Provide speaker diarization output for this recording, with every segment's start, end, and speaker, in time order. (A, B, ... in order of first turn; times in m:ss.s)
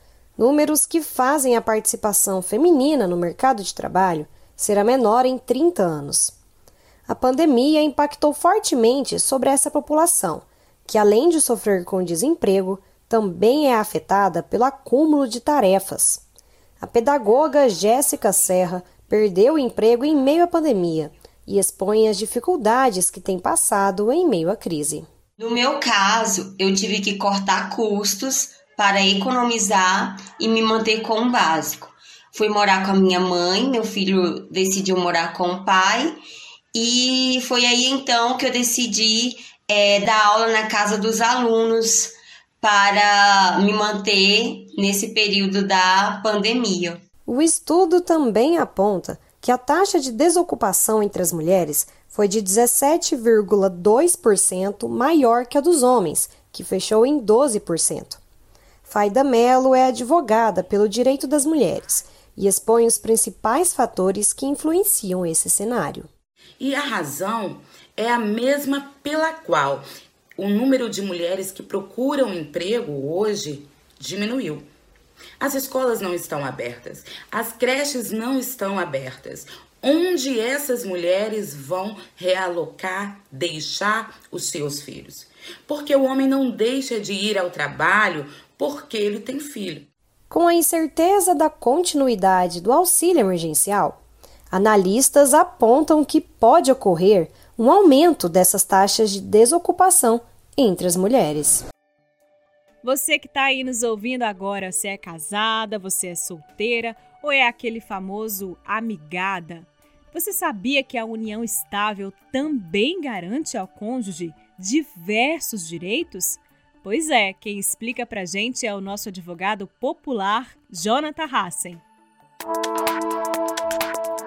0:00.4-0:06.4 A
0:07.1-0:16.2 A
0:16.8-0:25.1 A
0:25.4-0:36.2 B
0:36.7-0:47.0 B
0:47.3-0:58.2 A
0:58.8-1:06.1 A
1:06.6-1:09.9 C
1:10.4-1:14.7 C
1:15.4-1:29.9 C
1:30.3-1:34.0 A
1:34.5-1:41.6 A
1:42.8-2:01.8 D